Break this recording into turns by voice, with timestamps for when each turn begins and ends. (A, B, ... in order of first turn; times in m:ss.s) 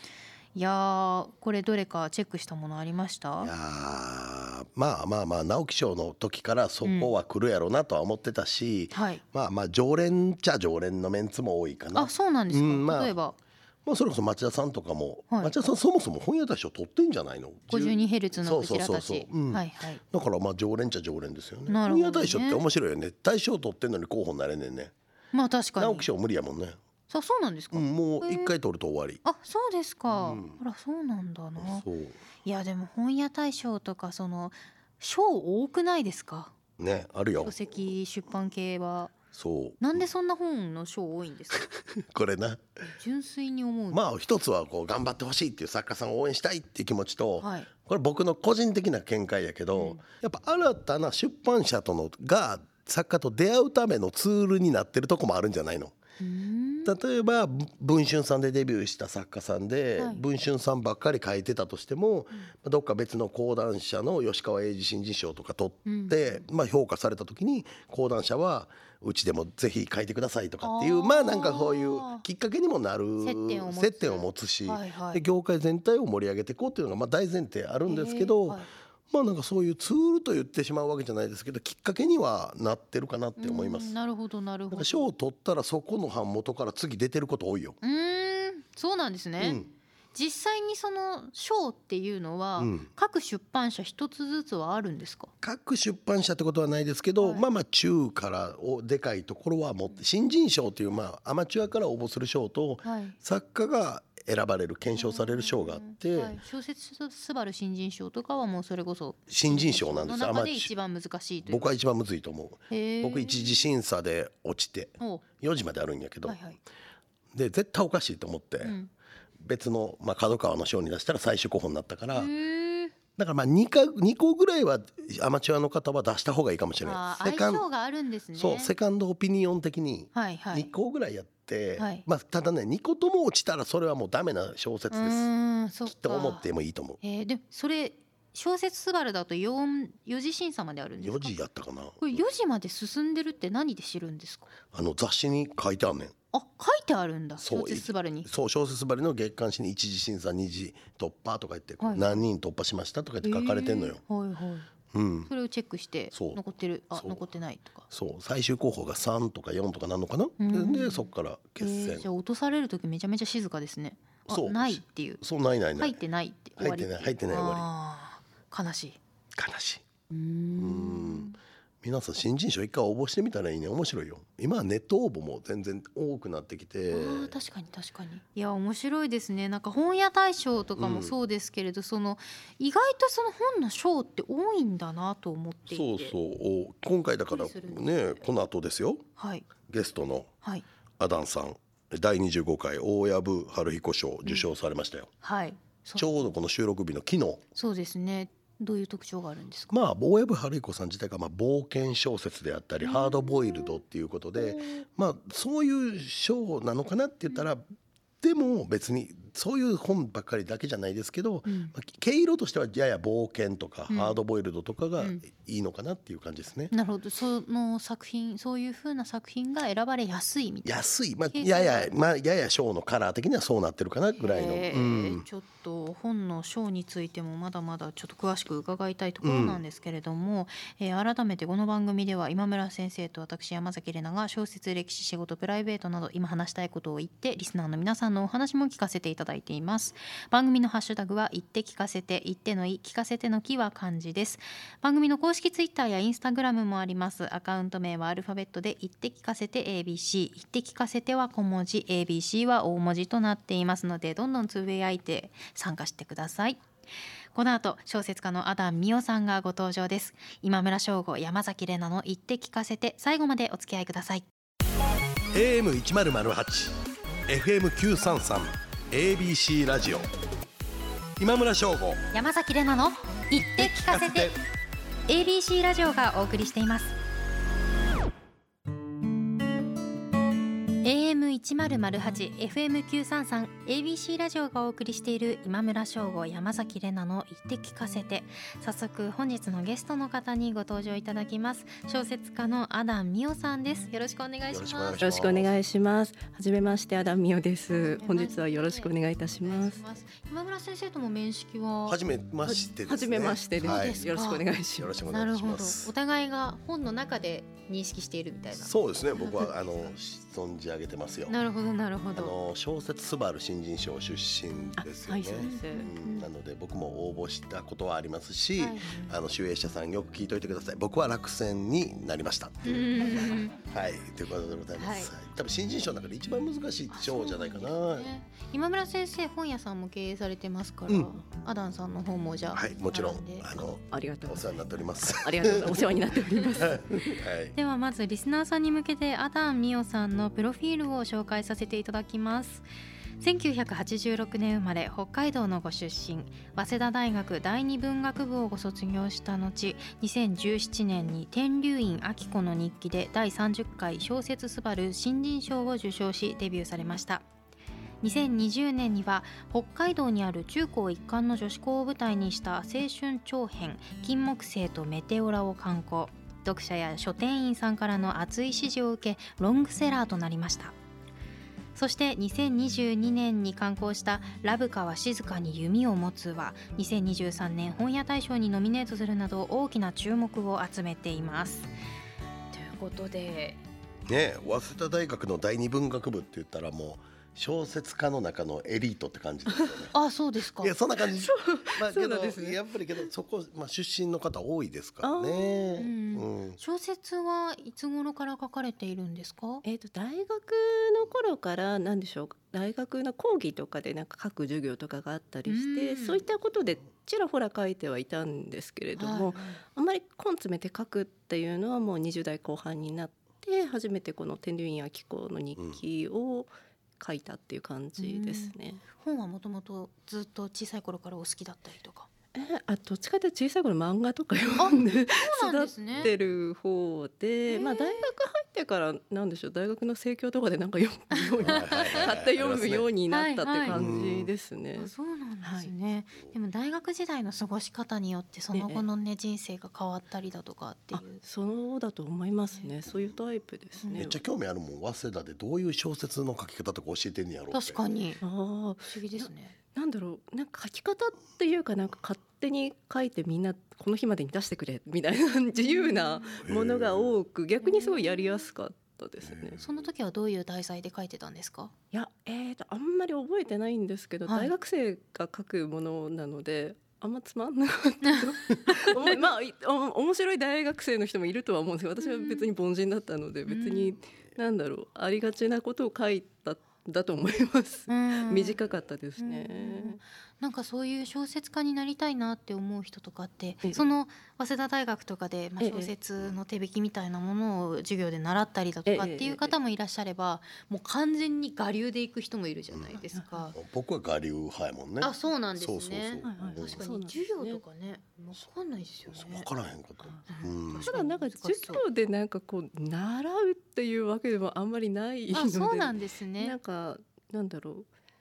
0:00.5-0:03.5 A
0:03.4-0:13.2 B
0:06.8-0:07.1 A
0:08.9-0:09.2 A
0:11.9-0:13.4 A
0:13.8-0:24.9 B
0:17.7-0:20.0 A
0:21.7-0:22.6 A
0:25.3-0:26.1 A
0:25.8-0:26.8 B
0:27.1-0:28.5 A
0:27.7-0:29.2 B
0:29.2-0:31.9 A
0:30.1-0:30.6 B
0:31.6-0:32.2 B
0:32.4-0:36.5 A
0:36.8-0:37.9 B
0:37.4-0:39.2 A
0:39.3-0:39.8 B
0:39.8-0:41.7 A
0:41.9-0:42.6 B
0:43.0-0:44.0 A
0:43.9-0:56.0 B
0:47.4-0:47.7 A
0:49.7-0:50.0 A
0:56.2-0:57.0 A
0:56.8-1:23.9 B
1:00.0-1:00.2 A
1:05.9-1:06.4 A
1:10.6-1:12.2 A
1:13.2-1:15.2 A
1:17.9-1:18.7 A
1:23.4-1:25.1 A
1:24.7-1:27.8 B
1:27.8-1:29.6 A
1:29.4-1:29.7 B
1:30.1-1:35.3 A
1:32.6-1:32.9 B
1:35.4-1:46.4 B
1:37.2-1:37.4 A
1:42.8-1:43.2 A
1:45.0-1:51.7 A
1:49.3-1:50.7 B
1:51.5-1:56.4 B
1:52.7-1:53.6 A
1:56.3-1:56.6 A
1:57.3-1:58.8 B
1:58.6-1:58.9 A
1:59.4-2:02.3 B
2:02.1-2:02.9 A
2:03.2-2:07.6 B
2:06.8-2:08.7 A
2:08.4-2:15.3 B
2:10.1-2:10.7 A
2:11.8-2:12.0 A
2:14.9-2:16.4 A
2:15.9-2:17.0 B
2:17.0-2:21.4 A
2:21.0-2:22.2 B
2:22.0-2:24.5 A
2:24.7-2:26.2 B
2:26.3-2:28.3 A
2:27.4-2:34.0 B
2:31.8-2:32.2 A
2:33.2-2:34.7 A
2:34.9-2:35.3 B
2:35.3-2:37.9 A
2:36.1-2:36.4 B
2:37.0-2:37.2 B
2:37.9-2:42.1 B
2:40.4-2:41.1 A
2:41.6-2:45.2 A
2:44.3-2:46.0 B
2:45.8-2:49.0 A
2:46.6-2:47.7 B
2:49.4-2:49.8 B
2:50.1-2:51.4 A
2:50.6-2:51.3 B
2:51.8-2:57.4 B
2:56.9-3:06.2 A
3:00.8-3:01.2 B
3:05.7-3:09.0 B
3:07.3-3:08.2 A
3:09.2-3:09.4 A
3:09.7-3:10.3 B
3:11.0-3:15.1 B
3:15.2-3:16.2 A
3:16.0-3:17.4 B
3:17.6-3:19.7 A
3:19.7-3:27.6 B
3:22.8-3:23.8 A
3:24.4-3:24.8 A
3:28.2-3:36.7 B
3:31.5-3:31.7 A
3:33.9-3:34.2 A
3:36.7-3:40.8 A
3:40.6-3:45.2 B
3:41.3-3:41.9 A
3:44.2-4:16.6 A
3:49.2-3:49.6 B
4:17.3-4:24.2 A
4:25.3-4:30.1 B
4:31.2-4:32.1 B
4:32.1-4:34.3 A
4:33.6-4:34.4 B
4:35.1-4:37.0 A
4:40.8-4:55.0 A
4:54.5-4:55.5 B
4:55.0-4:59.8 C
4:57.8-5:02.0 A
5:01.9-5:04.1 B
5:02.5-5:05.0 C
5:03.6-5:04.4 A
5:04.8-5:05.9 B
5:05.1-5:09.6 A
5:08.6-5:11.4 B
5:11.3-5:12.3 A
5:12.2-5:28.1 B
5:14.8-5:15.9 C
5:15.4-5:16.3 A
5:18.6-5:19.1 A
5:22.6-5:23.6 A
5:24.8-5:25.1 A
5:26.9-5:33.5 A
5:30.9-5:31.1 B
5:32.5-5:35.9 B
5:33.9-5:36.9 C
5:36.6-5:37.6 B
5:37.6-5:42.7 A
5:43.2-5:57.2 A
5:58.0-6:10.8 A
6:11.8-6:21.7 A
6:22.5-6:23.6 A
6:24.1-6:29.9 B
6:29.5-6:29.8 C
6:29.9-6:30.8 A
6:30.6-6:36.6 B
6:31.1-6:32.6 C
6:35.0-6:35.9 C
6:35.8-6:39.6 A
6:39.6-6:58.8 C
6:45.5-6:46.2 A
6:49.0-6:49.6 A
6:58.0-7:02.1 A
7:02.4-7:14.9 C
7:04.6-7:06.1 A
7:07.5-7:08.1 A
7:11.1-7:12.0 A
7:11.4-7:12.9 B
7:13.1-7:13.8 A
7:13.7-7:14.3 B
7:14.8-7:21.2 A
7:15.4-7:15.7 C
7:18.5-7:18.9 C
7:20.9-7:24.2 C
7:23.8-7:24.1 A
7:23.9-7:27.8 B
7:27.5-7:28.2 A
7:28.2-7:39.6 C
7:28.9-7:29.6 A
7:35.6-7:36.4 A
7:36.4-7:37.1 B
7:37.6-7:38.4 A
7:39.3-7:39.8 B
7:39.6-7:41.7 A
7:41.9-8:00.0 C
7:44.3-7:44.5 A
7:48.0-7:49.1 A
7:52.0-7:52.5 A
7:53.5-7:54.0 A
7:57.9-7:58.6 A
7:59.2-8:13.6 A
8:03.6-8:03.9 C
8:05.6-8:05.9 C
8:08.9-8:09.5 C
8:12.7-8:13.0 B
8:13.5-8:16.8 B
8:15.0-8:19.5 A
8:16.2-8:17.6 C
8:19.1-8:20.9 B
8:20.3-8:21.8 A
8:20.8-8:27.9 C
8:25.3-8:26.6 A